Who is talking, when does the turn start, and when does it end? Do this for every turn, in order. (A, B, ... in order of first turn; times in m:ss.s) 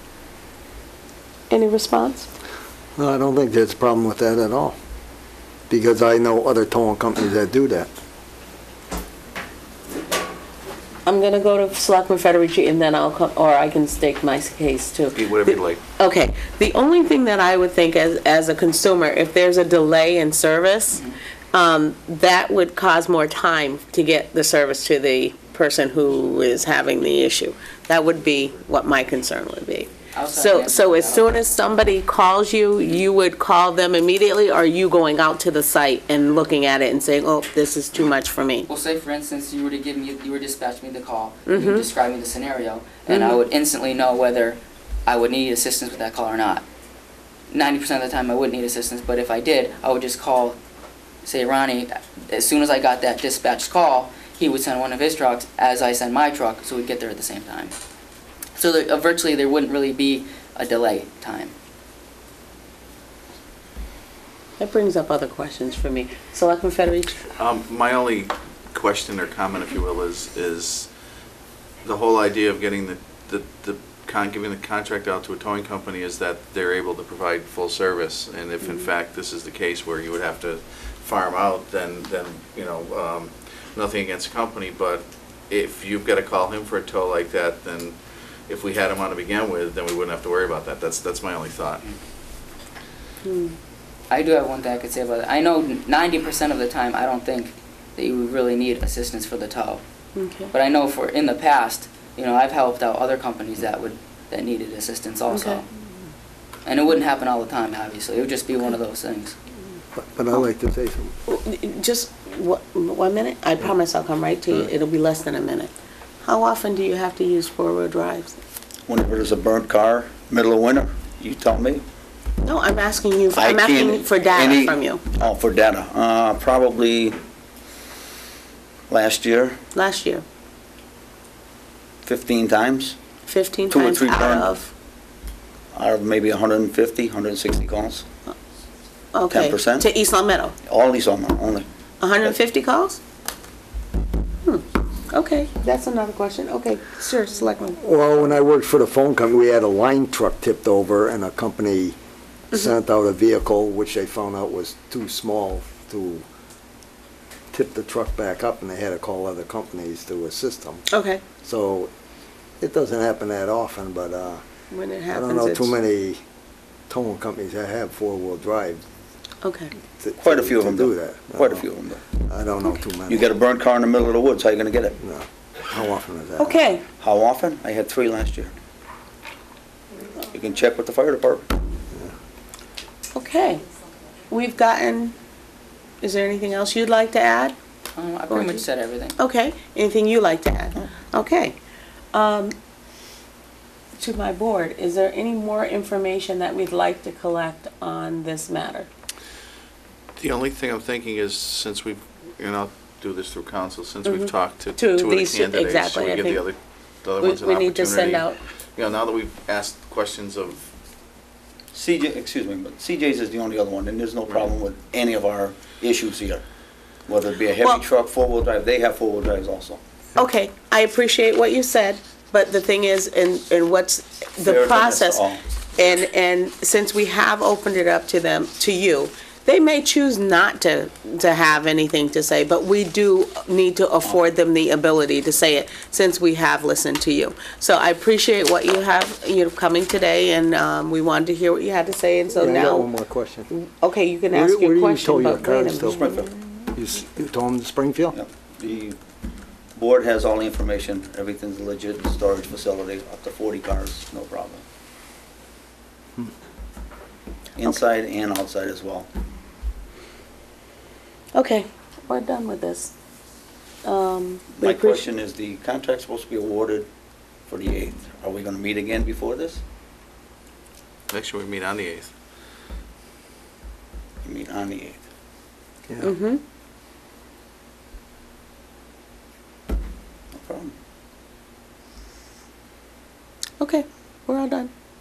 0:01.5-0:02.3 A
0:03.0-0:04.8 B
0:05.7-0:07.9 B
0:11.0-0:38.7 A
0:15.1-0:15.8 C
0:30.1-0:31.3 D
0:38.7-0:46.6 D
0:41.4-0:41.9 A
0:43.1-0:43.4 A
0:47.5-0:50.6 D
0:51.2-0:57.7 D
0:58.6-1:01.5 D
1:04.6-1:07.2 A
1:07.4-1:10.9 E
1:11.8-1:28.0 E
1:28.5-1:31.8 E
1:33.2-1:33.6 A
1:34.1-1:39.8 D
1:40.1-1:40.5 A
1:40.5-1:45.7 D
1:45.3-1:45.6 A
1:46.6-1:49.3 D
1:49.9-1:51.1 B
1:51.3-1:55.7 A
1:56.2-1:58.4 A
1:58.9-2:01.8 C
2:02.4-2:05.0 A
2:03.3-2:07.2 C
2:08.9-2:09.6 C
2:09.7-2:10.2 A
2:12.0-2:13.0 C
2:13.2-2:14.7 A
2:13.7-2:14.5 C
2:15.7-2:18.0 C
2:19.1-2:20.5 A
2:19.3-2:19.9 C
2:20.6-2:21.7 C
2:22.0-2:23.0 A
2:24.4-2:27.8 A
2:27.7-2:32.0 B
2:32.5-2:36.2 B
2:37.5-2:41.9 B
2:40.9-2:41.2 A
2:42.6-2:44.4 B
2:44.7-2:45.7 A
2:45.1-2:46.2 B
2:46.9-2:48.8 B
2:49.4-2:49.7 A
2:50.0-2:51.6 B
2:50.2-2:52.0 C
2:52.2-2:53.3 B
2:53.1-2:55.0 C
2:55.0-2:56.6 B
2:56.4-2:56.9 A
2:56.9-2:58.5 C
3:00.3-3:01.5 C
3:03.1-3:03.6 A
3:04.3-3:05.1 A
3:06.0-3:07.6 A
3:07.9-3:09.2 D
3:08.3-3:08.6 A
3:09.2-3:11.6 A
3:12.1-3:12.5 A
3:14.0-3:18.9 A
3:20.2-3:30.6 E
3:24.0-3:26.5 A
3:27.2-3:28.4 A
3:31.7-3:36.4 C
3:37.1-3:39.8 C
3:40.2-4:02.9 A
3:44.4-3:45.4 C
4:02.4-4:03.5 B
4:03.5-4:06.3 A
4:04.3-4:06.1 B
4:06.0-4:06.3 C
4:06.7-4:08.2 B
4:08.1-4:09.0 C
4:09.7-4:14.6 C
4:17.6-4:19.1 C
4:21.3-4:22.9 A
4:23.8-4:25.1 A
4:24.5-4:26.9 C
4:27.5-4:29.6 C
4:31.1-4:32.1 E
4:34.2-4:35.0 C
4:36.0-4:36.4 A
4:40.3-4:40.7 C
4:43.6-4:44.7 A